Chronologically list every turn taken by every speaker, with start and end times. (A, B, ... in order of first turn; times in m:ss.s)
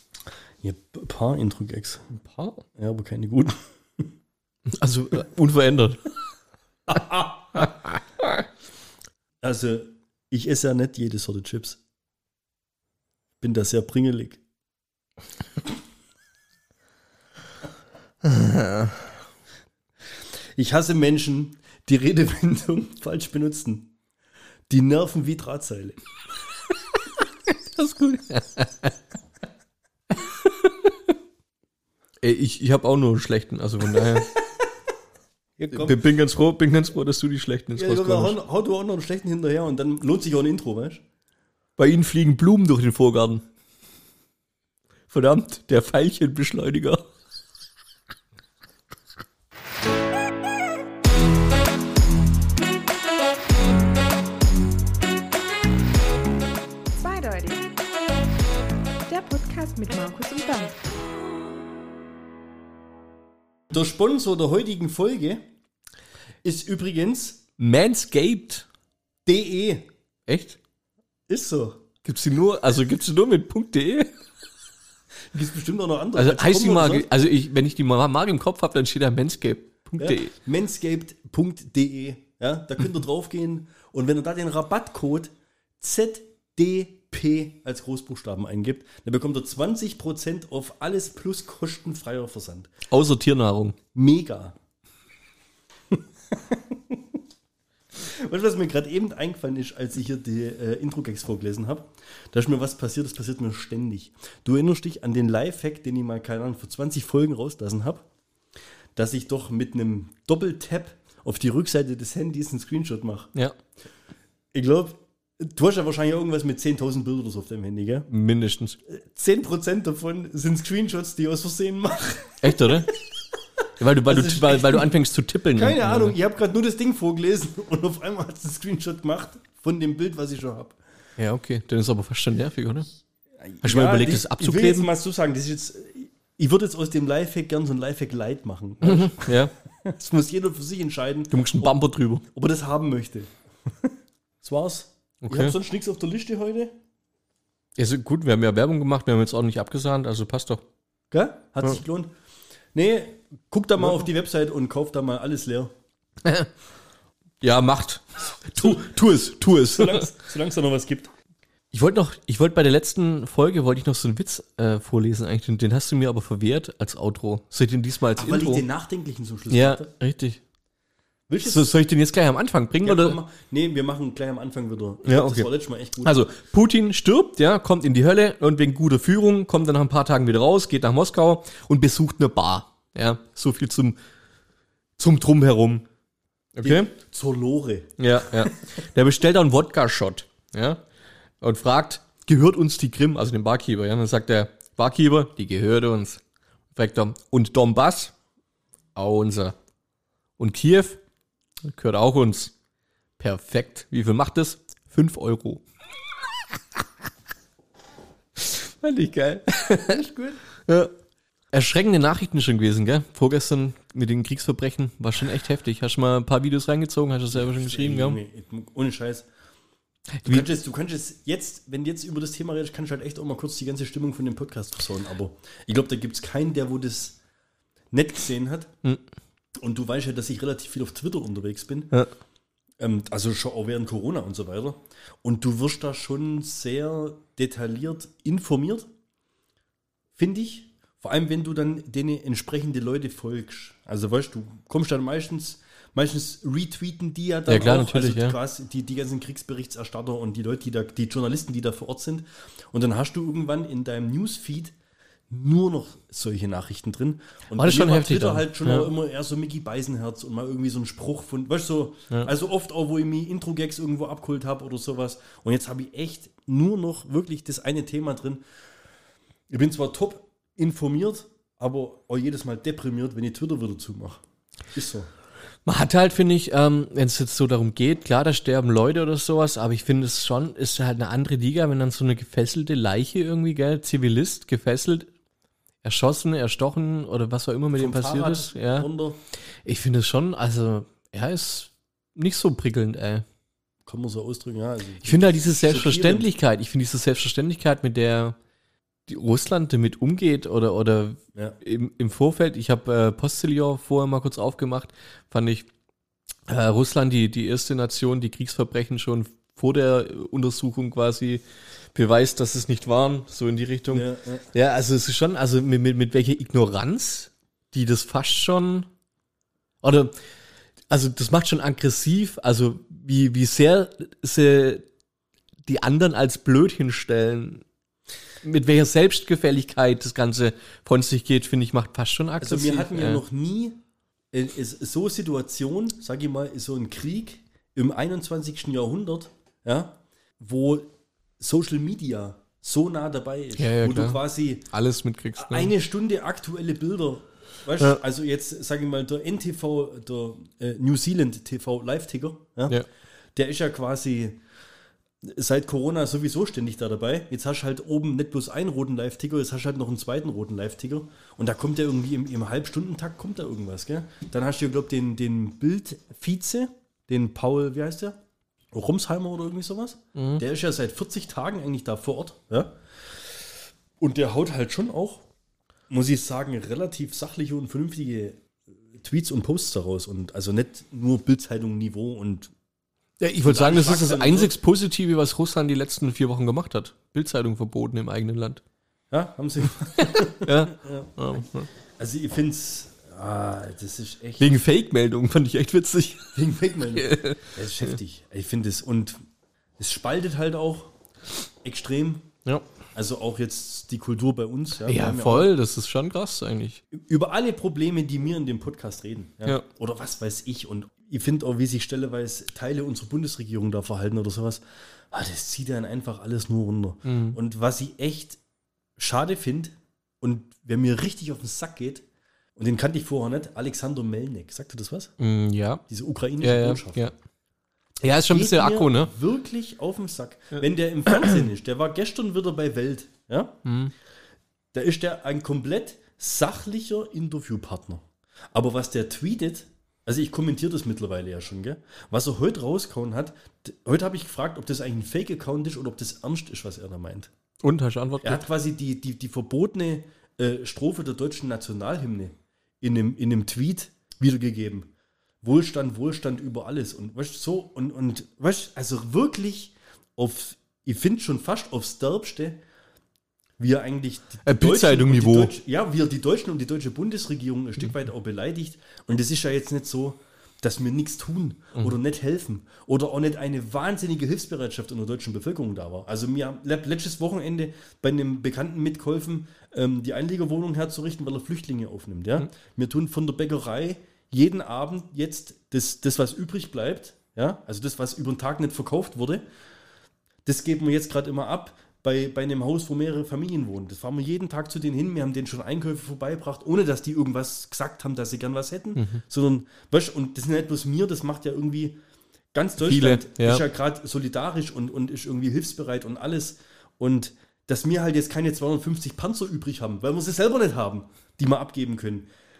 0:00.6-0:02.0 A
0:02.2-0:02.6 B
0:02.8-0:04.1 A
0:04.7-0:06.1 B
0:06.9-0:07.8 A
0:07.6-0:08.4 B
0:09.4-0:11.8 A
0:13.4-0:14.4 A
0:18.2-0:19.0 B
0:20.6-0:23.9 A
0:24.7-0:26.0 A
0:27.5-0:28.9 B
0:30.2-0:31.0 B
0:32.2-0:34.3 B
0:35.6-0:36.0 A
0:35.7-0:38.4 B
0:37.8-0:41.0 A
0:41.8-0:43.4 B
0:45.1-0:47.1 B
0:56.9-0:57.7 C
0:59.1-1:00.8 C
1:03.7-1:05.4 A
1:06.4-1:07.4 A
1:07.6-1:08.7 B
1:09.2-1:09.9 A
1:10.3-1:10.6 B
1:11.3-1:11.8 A
1:12.0-1:14.1 B
1:15.3-1:17.1 A
1:16.2-1:20.3 B
1:20.0-1:32.7 A
1:32.9-1:33.8 B
1:34.0-1:34.6 A
1:35.9-1:37.0 A
1:38.0-1:48.1 A
1:49.0-1:53.3 A
1:54.5-1:58.1 A
1:58.1-1:58.8 B
1:58.9-2:02.7 A
2:02.4-2:02.9 B
2:03.8-2:06.2 B
2:04.0-2:04.9 A
2:05.6-2:10.8 A
2:11.2-2:12.9 B
2:13.4-2:26.8 A
2:13.6-2:14.9 B
2:18.8-2:19.5 B
2:21.3-2:22.2 B
2:25.2-2:25.6 B
2:27.8-2:30.6 B
2:31.1-2:32.1 A
2:32.7-2:35.7 A
2:36.2-2:36.5 B
2:37.4-2:40.1 B
2:38.6-2:41.1 A
2:41.7-2:48.6 B
2:48.2-2:49.9 A
2:49.5-2:50.4 B
2:51.3-2:51.7 A
2:51.4-2:53.2 B
2:52.8-2:56.3 A
2:55.0-2:55.5 B
2:56.0-3:04.0 B
3:05.0-3:05.9 B
3:06.6-3:06.9 B
3:06.6-3:08.6 A
3:08.0-3:10.8 B
3:11.4-3:16.2 B
3:16.7-3:18.1 B
3:19.0-3:19.6 B
3:20.4-3:21.0 B
3:21.7-3:22.5 B
3:23.2-3:25.6 B
3:28.4-3:30.0 B
3:29.9-3:30.4 A
3:30.6-3:30.9 B
3:31.5-3:38.2 B
3:37.3-3:39.3 A
3:40.2-3:40.5 B
3:40.2-3:47.2 A
3:47.9-3:48.7 A
3:49.6-3:51.9 A
3:52.8-3:58.9 A
4:00.2-4:14.8 A
4:07.5-4:08.4 B
4:15.3-4:28.4 A
4:17.6-4:18.9 B
4:29.5-4:34.2 A
4:34.7-4:35.1 A
4:35.7-4:45.1 B
4:45.8-4:48.9 B
4:47.8-4:49.2 A
4:49.6-4:53.2 B
4:53.9-4:56.3 A
4:55.0-4:58.4 B
4:59.1-5:05.7 B
5:06.5-5:11.4 B
5:12.0-5:18.9 B
5:13.9-5:14.5 A
5:19.8-5:20.1 B
5:20.9-5:24.8 B
5:25.7-5:27.6 B
5:28.4-5:33.2 B
5:32.4-5:33.8 A
5:34.3-5:44.7 A
5:43.6-5:45.7 B
5:45.4-5:52.8 A
5:53.4-5:54.4 A
5:55.2-6:08.2 A
6:08.7-6:15.3 A
6:10.2-6:10.4 B
6:15.9-6:22.5 A
6:23.2-6:28.6 B
6:23.4-6:24.6 A
6:29.1-6:31.1 A
6:30.0-6:31.7 B
6:32.0-6:34.6 A
6:34.4-6:36.4 B
6:36.4-6:39.2 A
6:36.9-6:37.9 B
6:39.8-6:40.9 A
6:41.6-6:42.3 A
6:42.9-6:45.5 A
6:44.8-6:46.8 B
6:46.9-6:58.4 A
6:57.0-6:57.4 B
6:59.0-7:02.0 A
7:02.6-7:05.1 A
7:05.2-7:05.8 B
7:05.9-7:07.1 A
7:06.4-7:07.1 B
7:08.0-7:09.1 B
7:08.1-7:13.6 A
7:13.6-7:13.9 B
7:14.7-7:27.3 A
7:27.6-7:28.4 B
7:28.2-7:34.9 A
7:35.4-7:42.6 A
7:43.6-8:09.4 A
7:44.4-7:45.5 B
8:10.4-8:22.0 A
8:19.0-8:19.2 B
8:22.5-8:32.3 A
8:22.8-8:23.6 B